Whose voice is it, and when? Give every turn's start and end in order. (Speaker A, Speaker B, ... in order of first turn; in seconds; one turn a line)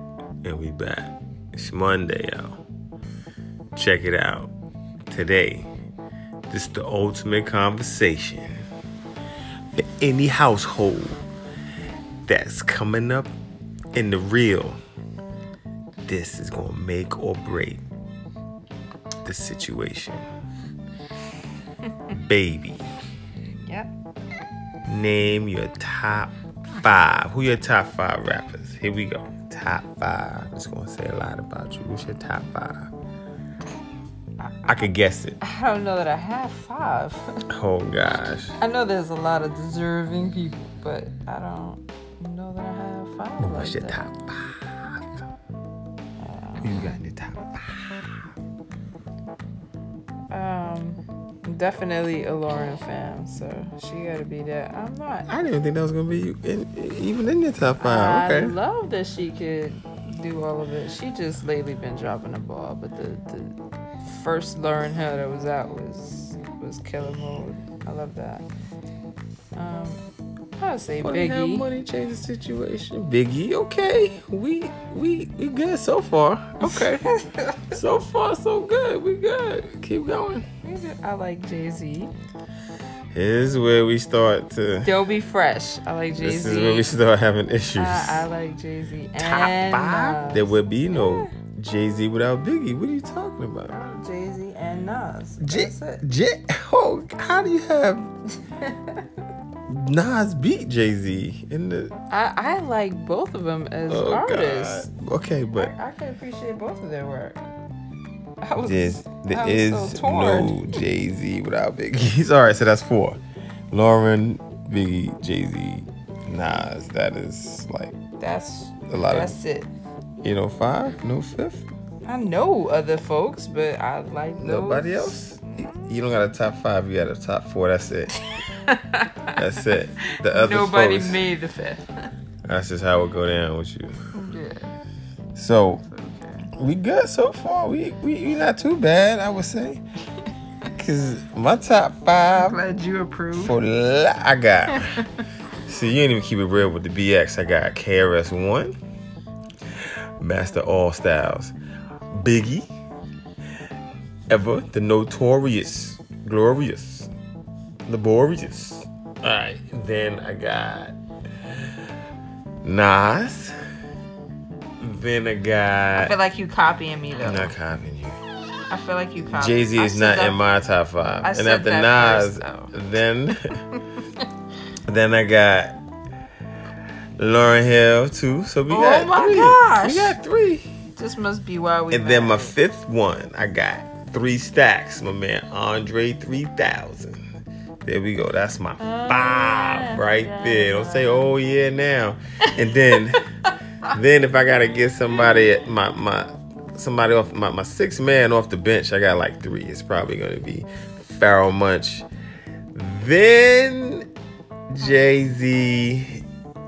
Speaker A: 0.4-2.6
Speaker A: 3.8-4.5
Speaker A: 5.1-5.7
Speaker A: 6.5-8.7
Speaker A: 9.7-11.2
Speaker A: 12.3-13.3
Speaker A: 13.9-14.8
Speaker A: 16.1-17.8
Speaker A: 19.2-20.2
Speaker A: 22.1-22.9
Speaker B: 23.6-23.9
Speaker A: 24.9-32.9
Speaker B: 34.4-34.8
Speaker A: 34.6-35.4
Speaker B: 35.4-37.4
Speaker A: 37.5-38.6
Speaker B: 38.6-44.0
Speaker A: 43.4-45.1
Speaker B: 46.2-47.0
Speaker A: 46.6-48.1
Speaker B: 50.3-55.3
Speaker A: 55.3-58.6
Speaker B: 57.8-68.5
Speaker B: 69.6-70.0
Speaker B: 70.6-71.7
Speaker A: 71.0-77.1
Speaker B: 76.6-77.8
Speaker A: 77.7-80.5
Speaker B: 80.6-82.1
Speaker A: 83.1-84.9
Speaker B: 84.8-86.9
Speaker A: 86.2-88.3
Speaker B: 87.8-91.3
Speaker A: 89.2-93.8
Speaker B: 93.7-96.0
Speaker A: 95.4-98.1
Speaker B: 98.5-99.0
Speaker A: 99.7-101.9
Speaker B: 102.1-104.9
Speaker A: 103.9-105.7
Speaker B: 105.6-107.4
Speaker B: 108.4-110.8
Speaker A: 108.6-113.2
Speaker A: 113.7-118.0
Speaker B: 118.2-119.7
Speaker A: 118.9-119.4
Speaker A: 120.2-121.7
Speaker B: 122.0-126.0
Speaker A: 124.4-128.1
Speaker B: 128.3-129.4
Speaker A: 129.3-131.2
Speaker B: 130.1-131.8
Speaker A: 132.5-134.0
Speaker B: 134.1-134.7
Speaker A: 135.3-135.8
Speaker B: 135.8-136.5
Speaker A: 136.6-139.8
Speaker A: 140.7-142.6
Speaker B: 142.3-143.6
Speaker A: 143.3-144.9
Speaker B: 144.7-145.2
Speaker A: 145.7-148.8
Speaker A: 150.2-151.6
Speaker A: 152.1-152.7
Speaker A: 154.3-157.1
Speaker A: 157.9-161.0
Speaker A: 162.6-163.6
Speaker A: 164.8-166.1
Speaker B: 166.0-167.5
Speaker A: 167.2-168.2
Speaker B: 168.7-170.4
Speaker A: 169.3-173.5
Speaker B: 171.2-172.7
Speaker B: 173.3-174.1
Speaker A: 174.8-175.8
Speaker A: 177.2-180.7
Speaker B: 178.7-180.2
Speaker B: 181.0-182.6
Speaker A: 181.9-187.2
Speaker A: 187.8-193.2
Speaker B: 188.8-191.3
Speaker B: 192.6-193.0
Speaker A: 193.9-202.1
Speaker A: 202.7-204.1
Speaker A: 204.7-206.2